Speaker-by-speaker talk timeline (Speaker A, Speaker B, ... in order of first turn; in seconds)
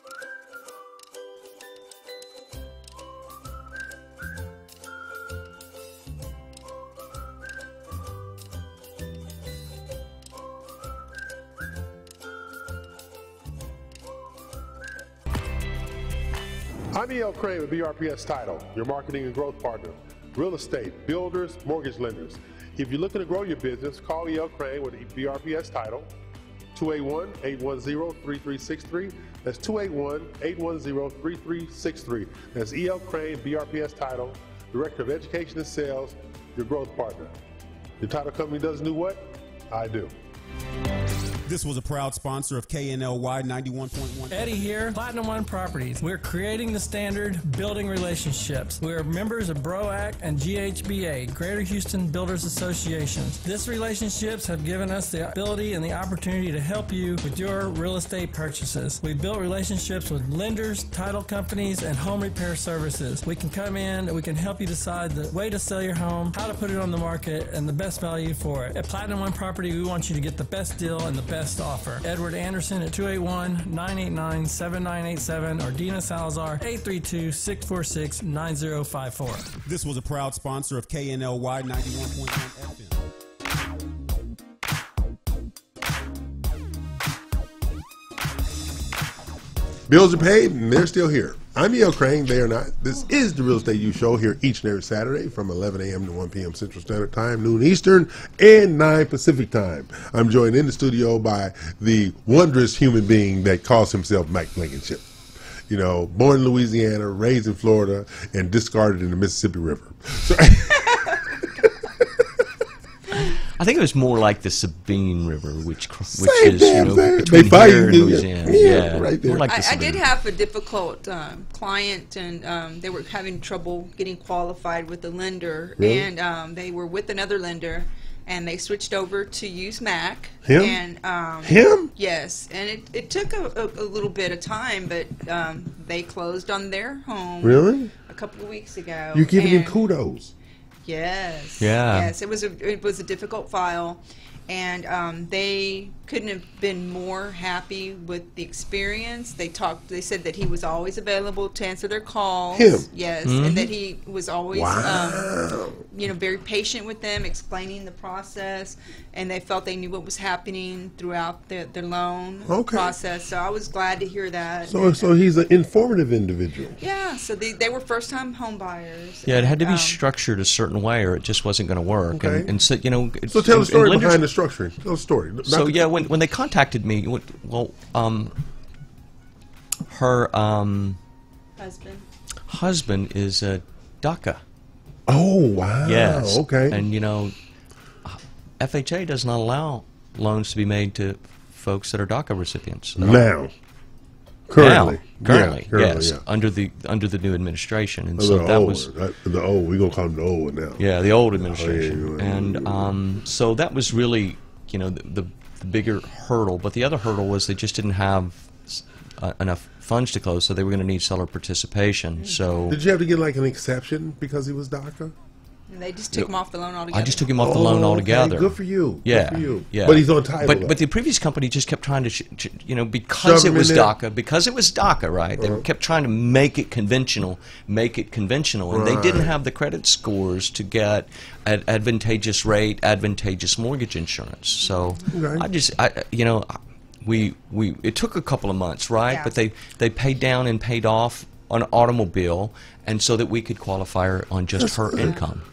Speaker A: 16.9-26.1, 26.8-37.4, 38.0-40.1, 89.9-105.0, 105.7-111.0, 116.1-119.5, 125.8-126.1, 130.4-130.8, 131.4-131.9, 137.4-137.9, 139.1-140.3, 152.5-152.9, 154.5-155.8, 162.5-162.9, 164.7-166.8, 172.1-172.5, 173.3-176.0, 185.1-186.8, 193.0-193.5, 194.5-196.2, 198.2-200.8, 201.4-202.9, 212.7-215.1, 217.4-220.8, 223.2-223.9, 225.4-225.7, 228.7-229.4, 235.1-235.5, 244.6-245.2
Speaker B: 41.5-44.7, 79.6-83.0
Speaker C: 44.3-79.5
Speaker D: 113.6-120.0, 141.6-142.1, 153.2-153.7, 169.3-174.2, 175.5-178.3, 179.9-181.0, 182.5-184.4, 185.8-187.3, 188.1-193.2, 194.6-198.9, 200.8-212.8, 216.9-245.4
Speaker E: 119.5-139.8, 140.8-155.3, 155.9-165.1, 166.8-170.0, 181.6-182.1, 215.7-217.3, 234.6-235.0